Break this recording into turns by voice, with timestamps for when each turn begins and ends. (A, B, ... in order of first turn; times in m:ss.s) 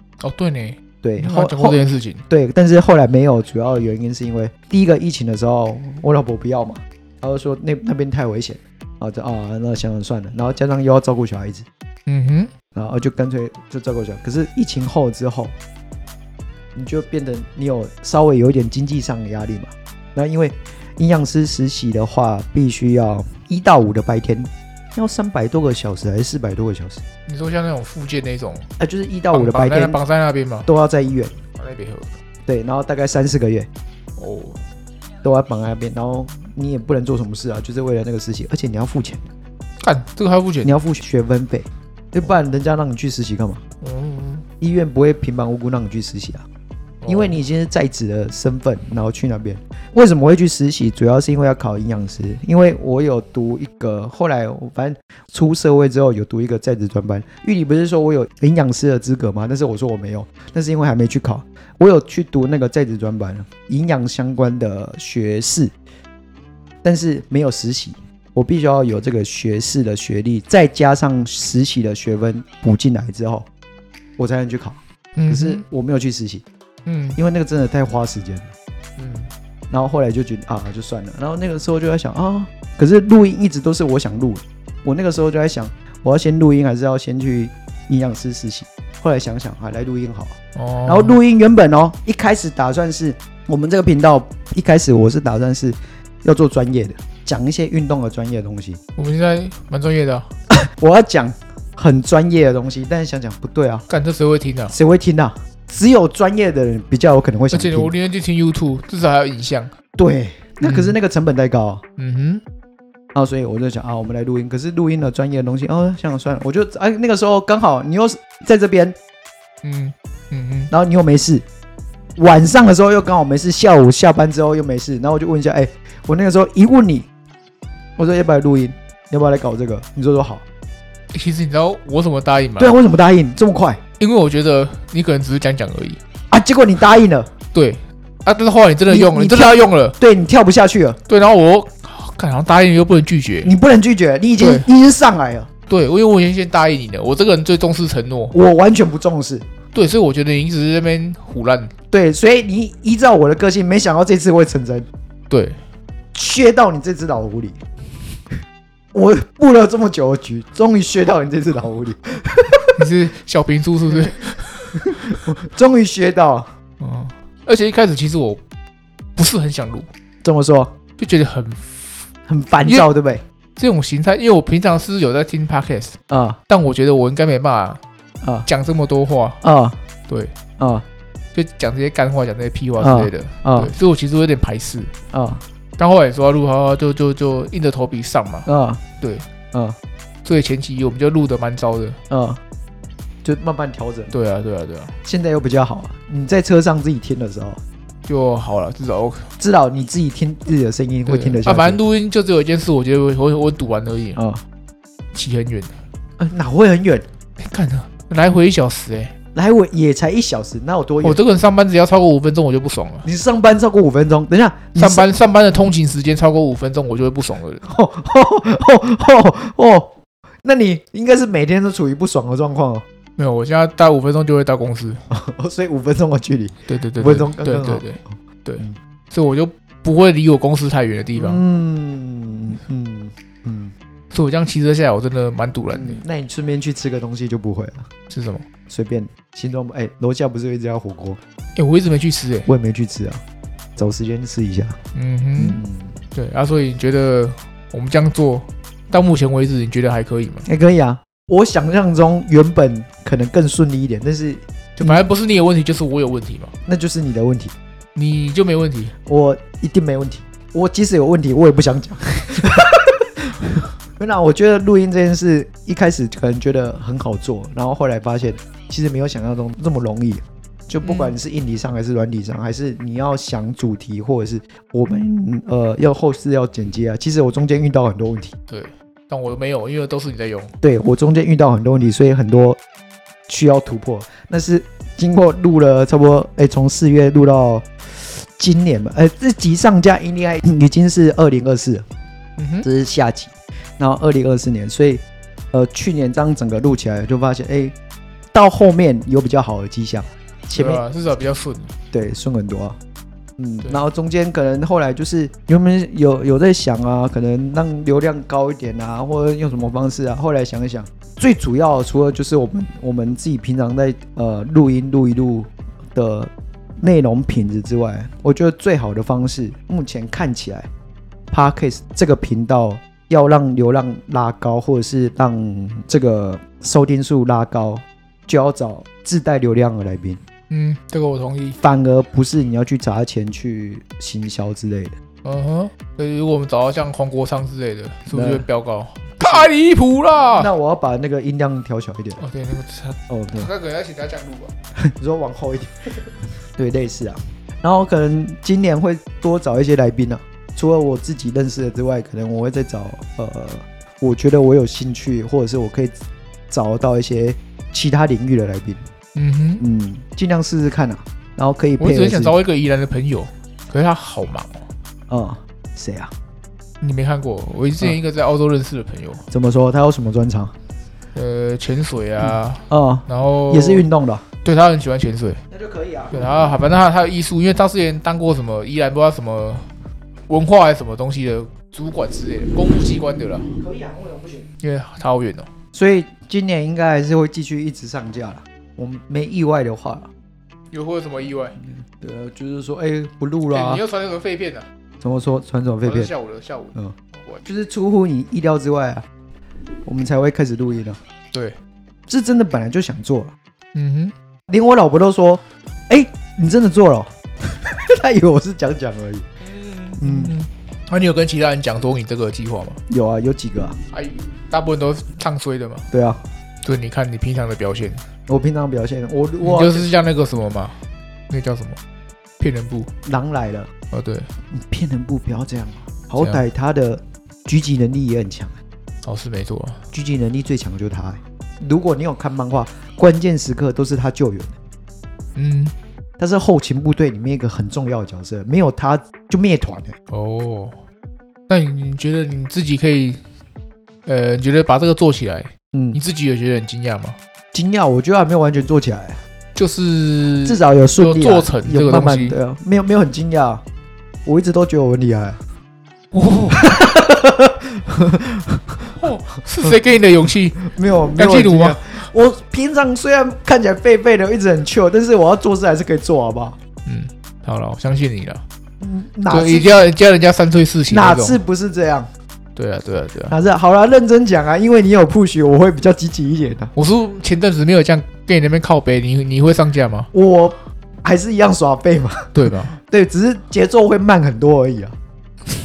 0:00.2-0:02.2 A
0:01.0-0:11.7 B
0:12.1-0:12.5 A
0:12.8-0:15.6 B
0:16.8-0:27.0 B
0:27.3-0:28.7 A
0:28.8-0:30.0 B
0:29.3-0:30.7 A
0:30.7-0:31.4 B
0:31.6-0:32.2 A
0:32.5-0:33.7 B
0:34.2-0:34.6 A
0:35.2-0:39.2 B
0:39.8-0:40.7 A
0:40.6-0:43.6 B
0:43.8-0:44.5 A
0:44.6-0:46.4 B
0:47.0-0:47.4 A
0:47.1-1:05.7 B
1:06.8-1:13.5 B
1:14.2-1:16.4 B
1:15.2-1:15.6 A
1:16.9-1:17.2 A
1:17.2-1:18.5 B
1:19.0-1:19.3 A
1:19.7-1:38.8 B
1:30.6-1:31.2 A
1:39.0-1:40.3 A
1:40.5-1:43.9 B
1:43.9-1:44.8 A
1:44.7-1:47.9 B
1:47.5-1:49.7 A
1:50.0-1:51.8 B
1:50.6-1:51.0 A
1:52.0-1:52.4 A
1:53.1-1:59.0 B
1:59.6-2:00.7 A
2:00.7-2:01.4 B
2:02.2-2:07.1 B
2:08.0-2:10.4 B
2:11.1-2:12.8 A
2:12.6-2:13.8 B
2:14.0-2:16.0 A
2:16.3-2:17.3 B
2:17.5-2:20.0 A
2:18.9-2:21.0 B
2:21.1-2:23.5 A
2:23.4-2:25.5 B
2:24.4-2:24.7 A
2:25.7-2:28.4 A
2:28.3-2:29.5 B
2:29.7-2:31.7 A
2:31.9-2:34.9 B
2:35.3-2:35.6 A
2:36.1-2:37.6 B
2:38.9-2:42.8 B
2:42.8-2:45.0 A
2:44.8-2:46.5 B
2:46.8-2:48.4 A
2:49.2-2:49.9 A
2:50.2-2:50.7 B
2:51.0-2:52.1 A
2:52.3-2:53.2 B
2:53.6-2:57.8 A
2:56.1-2:56.4 B
2:58.2-2:58.5 B
2:58.4-2:59.4 A
2:59.4-2:59.8 B
3:00.6-3:00.9 B
3:01.3-3:04.9 A
3:02.8-3:03.7 B
3:05.1-3:05.4 B
3:05.8-3:08.5 A
3:08.5-3:08.8 B
3:09.0-3:09.3 A
3:09.5-3:09.8 B
3:10.2-3:12.0 A
3:12.1-3:12.4 B
3:13.2-3:14.1 B
3:14.1-3:15.0 A
3:15.0-3:17.6 B
3:18.1-3:19.3 A
3:19.4-3:21.8 B
3:21.1-3:24.2 A
3:24.2-3:24.4 B
3:25.1-3:25.8 A
3:26.2-3:27.1 B
3:27.4-3:29.1 A
3:29.4-3:31.2 B
3:31.0-3:33.1 A
3:33.0-3:35.1 B
3:34.8-3:37.6 A
3:37.6-3:42.8 B
3:43.2-3:45.0 A
3:45.1-3:47.9 B
3:46.7-3:51.4 A
3:51.2-3:53.7 B
3:54.1-3:56.0 A
3:55.7-3:57.9 B
3:58.1-3:58.4 A
3:58.7-4:01.2 B
4:01.6-4:02.5 A
4:02.5-4:03.2 B
4:03.8-4:04.8 B
4:04.9-4:05.6 A
4:05.4-4:06.0 B
4:06.1-4:10.5 A
4:10.4-4:15.0 B
4:14.8-4:16.5 A
4:16.7-4:17.5 B
4:18.0-4:18.9 A
4:19.1-4:38.3 B
4:30.8-4:31.2 A
4:38.5-4:40.5 A
4:40.6-4:42.6 B
4:43.3-4:51.8 B
4:52.4-4:52.7 A
4:52.6-4:57.8 B
4:58.3-5:00.8 B
5:00.6-5:01.7 A
5:01.9-5:02.8 B
5:03.4-5:20.7 B
5:21.3-5:30.2 B
5:30.5-5:31.6 A
5:31.6-5:35.0 B
5:35.2-5:40.5 A
5:38.1-5:38.4 B
5:39.2-5:39.5 B
5:40.4-5:42.2 B
5:42.2-5:44.5 A
5:43.1-5:43.5 B
5:44.8-5:56.0 B
5:56.5-5:58.8 B
5:59.2-5:59.6 A
5:59.6-6:02.4 B
6:01.8-6:04.7 A
6:05.1-6:06.1 B
6:06.8-6:09.3 A
6:09.3-6:10.5 B
6:11.1-6:13.9 A
6:12.2-6:14.2 B
6:14.4-6:15.4 A
6:15.5-6:16.3 B
6:16.1-6:19.7 A
6:20.3-6:23.6 A
6:23.6-6:24.5 B
6:24.6-6:25.5 A
6:25.7-6:30.1 B
6:30.7-6:31.6 A
6:31.6-6:33.8 B
6:33.5-6:34.7 A
6:35.0-6:36.1 B
6:35.8-6:37.4 A
6:36.8-6:39.1 B
6:39.8-6:41.0 B
6:41.3-6:41.6 A
6:42.1-6:43.3 B
6:43.7-6:44.1 A
6:44.5-6:49.3 B
6:49.4-6:52.8 A
6:50.0-6:50.3 B
6:52.9-6:53.8 B
6:53.9-6:55.9 A
6:55.9-6:56.2 B
6:56.6-6:58.0 A
6:58.3-6:59.9 B
6:59.4-7:00.8 A
7:01.3-7:01.8 A
7:02.4-7:02.9 A
7:03.0-7:03.7 B
7:03.9-7:04.3 A
7:04.5-7:08.6 B
7:06.2-7:06.4 A
7:09.0-7:09.8 A
7:09.9-7:14.6 B
7:15.4-7:15.7 A
7:16.2-7:20.0 B
7:20.1-7:20.8 A
7:21.5-7:23.2 A
7:24.1-7:27.2 A
7:25.7-7:26.0 B
7:27.5-7:29.2 B
7:29.6-7:32.4 A
7:30.4-7:33.6 B
7:34.2-7:35.4 B
7:36.1-7:36.6 A
7:36.4-7:38.9 B
7:38.9-7:40.6 A
7:40.6-7:46.6 B
7:41.2-7:42.1 A
7:46.8-7:48.4 A
7:48.8-7:49.9 B
7:49.3-7:51.4 A
7:50.9-7:52.1 B
7:52.6-7:53.4 A
7:53.3-7:56.7 B
7:56.8-8:00.1 A
8:00.1-8:05.0 B
8:02.3-8:02.8 A